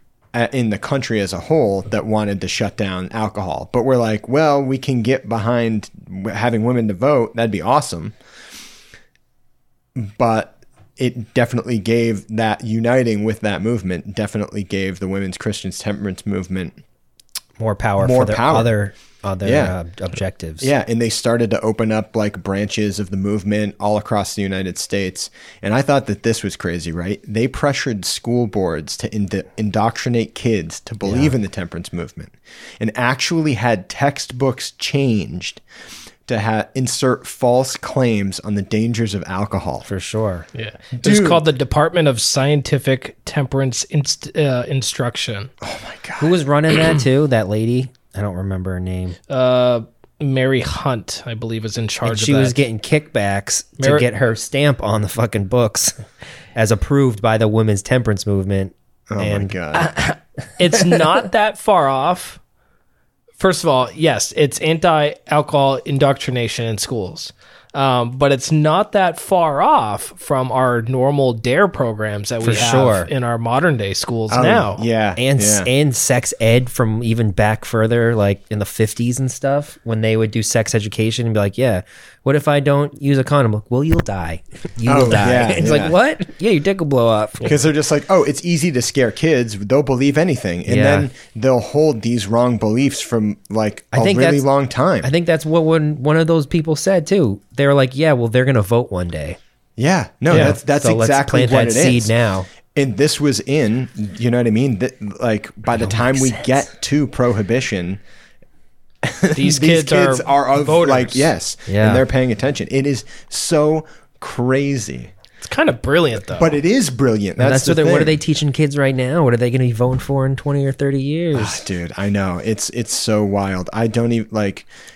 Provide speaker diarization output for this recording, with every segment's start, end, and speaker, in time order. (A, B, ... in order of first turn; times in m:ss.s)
0:00.3-0:08.2 A
0:10.0-0:16.8 A
0:17.6-0:20.7 B
0:18.0-0:18.7 A
0:19.4-0:19.8 A
0:20.6-0:35.6 A
0:31.0-0:31.3 B
0:36.3-0:39.9 A
0:39.9-0:40.5 B
0:40.6-0:45.5 C
0:41.0-0:41.4 A
0:45.6-0:46.4 A
0:46.2-0:49.2 B
0:49.3-0:52.6 C
0:52.0-0:56.0 B
0:53.8-0:54.1 C
0:56.6-0:59.5 B
0:59.1-0:59.9 A
0:59.7-1:02.4 C
1:03.4-1:14.8 C
1:12.4-1:13.1 B
1:14.3-1:15.7 A
1:15.2-1:27.5 B
1:24.9-1:26.0 A
1:27.4-1:35.1 A
1:30.7-1:31.1 B
1:33.9-1:34.5 B
1:35.0-1:39.4 B
1:39.8-1:42.1 A
1:40.3-1:42.5 B
1:42.7-1:48.0 A
1:45.8-1:46.5 B
1:49.0-1:55.1 A
1:49.4-1:51.3 C
1:51.7-1:52.0 B
1:55.4-1:56.5 C
1:56.4-1:58.2 A
1:57.4-2:01.6 B
2:01.4-2:04.7 A